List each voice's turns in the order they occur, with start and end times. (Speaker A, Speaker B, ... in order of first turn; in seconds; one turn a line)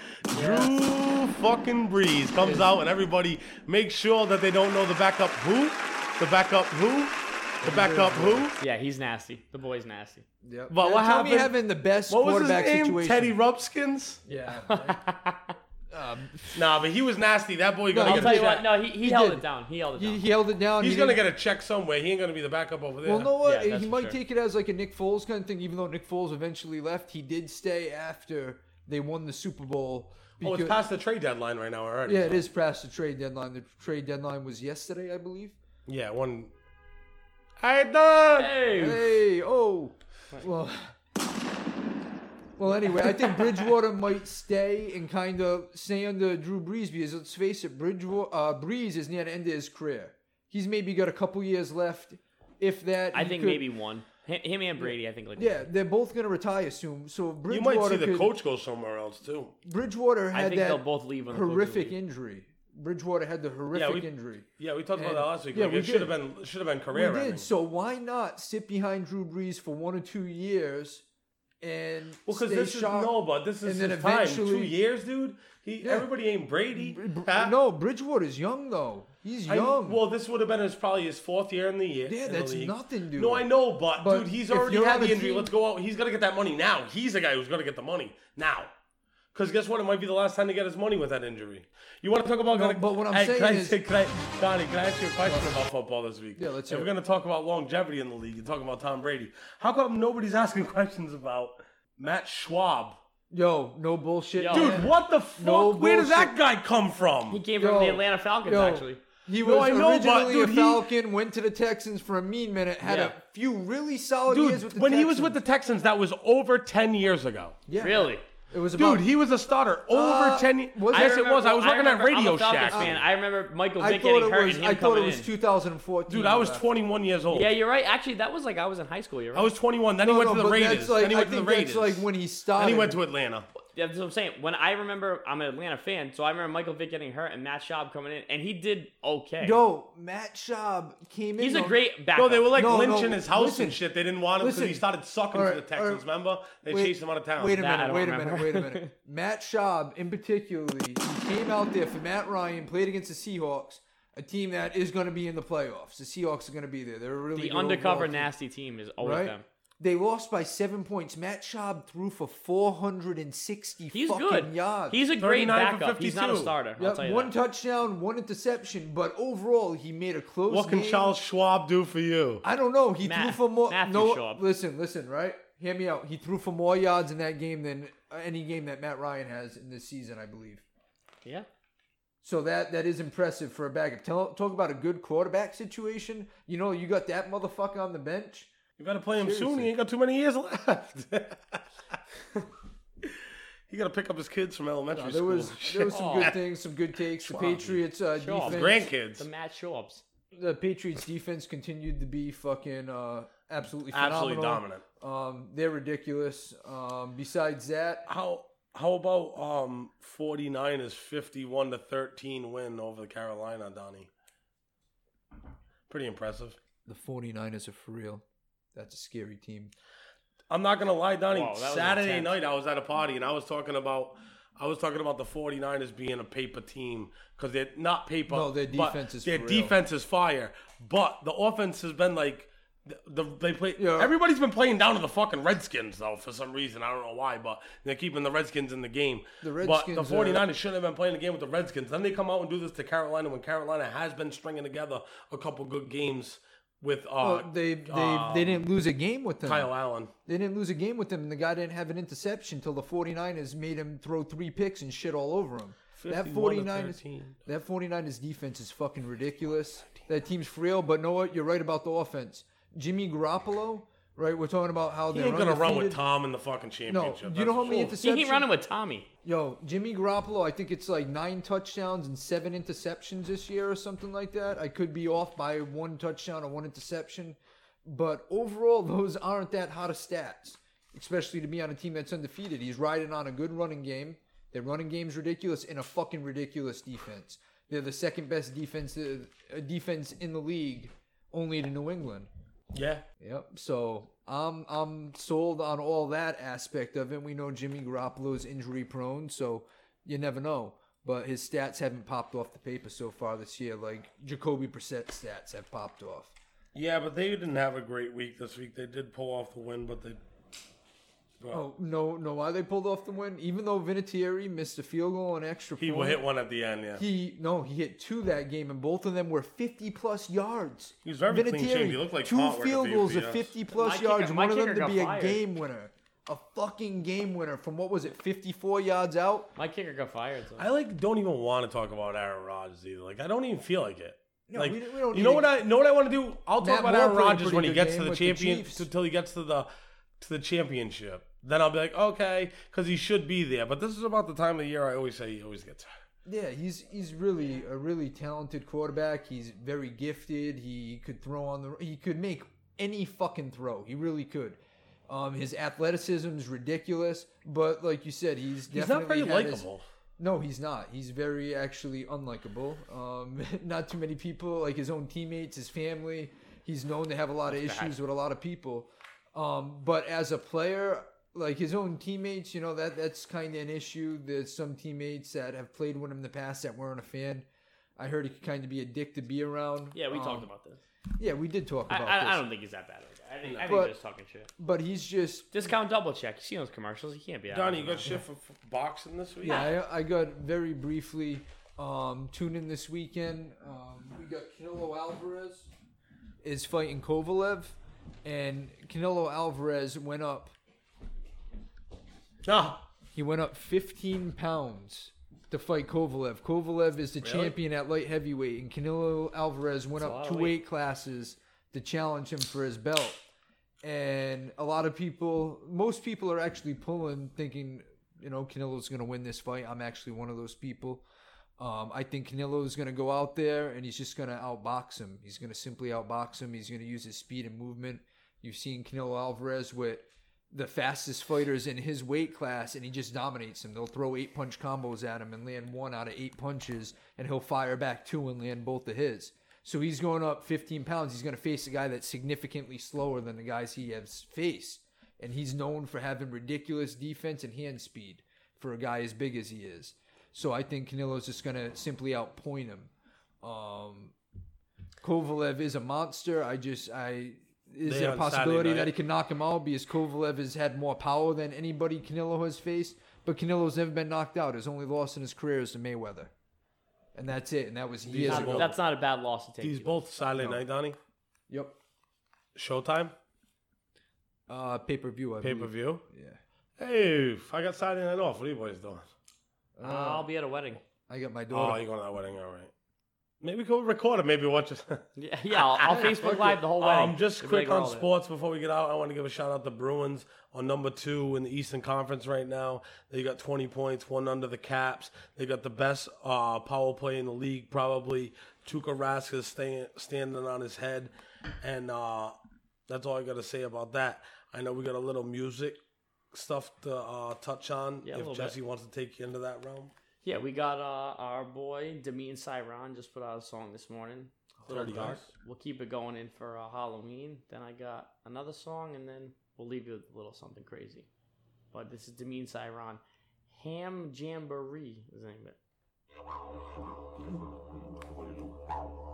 Speaker A: 0.3-8.6
Speaker B: 2.4-2.7
Speaker B: 7.6-8.5
Speaker C: 8.6-10.2
Speaker B: 10.4-13.3
Speaker A: 10.7-11.5
Speaker A: 12.1-14.2
Speaker B: 14.2-15.0
Speaker C: 14.7-15.5
Speaker B: 15.9-16.6
Speaker A: 16.5-18.6
Speaker B: 17.9-21.2
Speaker C: 18.0-20.2
Speaker A: 20.8-23.3
Speaker B: 23.0-30.8
Speaker C: 23.4-24.2
Speaker A: 30.4-32.4
Speaker B: 32.0-35.6
Speaker A: 35.9-36.5
Speaker A: 37.6-38.6
Speaker C: 38.4-39.0
Speaker B: 38.8-40.9
Speaker B: 42.6-53.7
Speaker C: 53.1-55.6
Speaker B: 54.8-58.3
Speaker A: 57.5-59.5
Speaker B: 59.6-66.1
Speaker C: 60.3-61.9
Speaker A: 63.7-67.5
Speaker B: 66.9-71.0
Speaker B: 71.6-74.8
Speaker A: 72.3-77.5
Speaker B: 75.8-76.1
Speaker B: 76.7-80.0
Speaker A: 79.5-88.7
Speaker B: 82.0-85.5
Speaker A: 89.3-103.0
Speaker B: 92.5-93.8
Speaker B: 95.2-95.6
Speaker B: 96.3-96.9
Speaker B: 103.3-106.3
Speaker C: 104.3-104.8
Speaker A: 104.5-107.4
Speaker C: 107.3-109.0
Speaker B: 107.6-115.4
Speaker A: 109.3-110.9
Speaker C: 112.8-113.1
Speaker A: 114.3-117.6
Speaker B: 117.7-119.0
Speaker C: 117.8-118.2
Speaker A: 118.7-123.0
Speaker B: 119.9-121.3
Speaker C: 120.9-125.3
Speaker B: 122.7-123.0
Speaker B: 123.8-126.6
Speaker A: 126.1-127.5
Speaker C: 127.3-129.5
Speaker A: 129.3-133.5
Speaker B: 130.0-133.0
Speaker C: 133.7-139.6
Speaker B: 139.4-141.8
Speaker C: 141.4-142.5
Speaker A: 142.1-147.6
Speaker B: 142.5-143.8
Speaker B: 144.4-146.0
Speaker B: 146.7-158.3
Speaker C: 147.5-148.9
Speaker C: 157.3-159.4
Speaker B: 159.0-165.0
Speaker C: 163.9-167.3
Speaker A: 165.2-166.5
Speaker B: 166.8-171.2
Speaker A: 170.5-172.4
Speaker B: 172.4-180.6
Speaker C: 173.0-174.4
Speaker B: 182.2-188.5
Speaker A: 188.8-191.6
Speaker B: 189.2-189.7
Speaker A: 193.0-196.4
Speaker B: 194.9-198.9
Speaker C: 195.9-196.3
Speaker A: 197.3-197.7
Speaker C: 198.2-200.0
Speaker A: 198.4-199.3
Speaker B: 200.3-208.1
Speaker A: 203.9-204.8
Speaker A: 208.1-214.1
Speaker A: 215.9-216.6
Speaker B: 216.8-218.2
Speaker B: 218.7-219.7
Speaker A: 220.5-248.7
Speaker C: 221.3-222.3
Speaker B: 228.3-229.8
Speaker B: 233.8-234.1
Speaker B: 239.4-240.5
Speaker B: 247.2-249.7
Speaker A: 249.4-250.1
Speaker B: 250.2-266.0
Speaker A: 256.0-257.4
Speaker A: 265.1-267.9
Speaker B: 266.9-268.5
Speaker C: 267.7-269.1
Speaker B: 269.2-292.3
Speaker A: 292.7-293.0
Speaker B: 293.2-306.3
Speaker A: 306.7-310.2
Speaker B: 311.5-316.2
Speaker A: 315.8-317.0
Speaker B: 316.9-329.5
Speaker A: 321.0-323.5
Speaker C: 323.7-325.4
Speaker C: 329.6-330.6
Speaker A: 330.6-339.7
Speaker B: 334.5-335.5
Speaker B: 336.6-338.9
Speaker A: 340.2-345.9
Speaker B: 346.2-359.7
Speaker A: 358.7-359.8
Speaker B: 360.2-377.5
Speaker C: 367.5-367.9
Speaker B: 378.0-380.5
Speaker C: 379.9-380.8
Speaker B: 381.2-382.4
Speaker C: 381.9-384.5
Speaker A: 383.4-383.7
Speaker B: 383.6-383.9
Speaker B: 384.6-385.5
Speaker C: 385.5-388.0
Speaker A: 387.5-389.7
Speaker B: 389.4-395.7
Speaker B: 396.4-400.5
Speaker A: 402.4-402.8
Speaker B: 403.1-413.2
Speaker A: 407.2-407.5
Speaker C: 410.0-410.6
Speaker B: 413.8-421.0
Speaker B: 421.6-454.1
Speaker B: 455.0-466.3
Speaker A: 457.8-458.9
Speaker B: 467.1-468.7
Speaker A: 468.1-468.8
Speaker C: 468.2-469.9
Speaker A: 469.6-471.0
Speaker B: 471.5-471.8
Speaker A: 472.6-473.1
Speaker B: 474.5-476.4
Speaker A: 475.4-476.0
Speaker A: 476.8-479.1
Speaker B: 479.8-480.3
Speaker C: 479.8-480.8
Speaker B: 480.9-481.8
Speaker A: 481.5-482.7
Speaker A: 483.4-502.4
Speaker C: 485.2-488.1
Speaker B: 485.9-486.6
Speaker A: 502.9-505.8
Speaker A: 506.3-509.9
Speaker C: 508.0-508.6
Speaker C: 510.2-521.1
Speaker A: 514.6-515.3
Speaker C: 521.7-525.6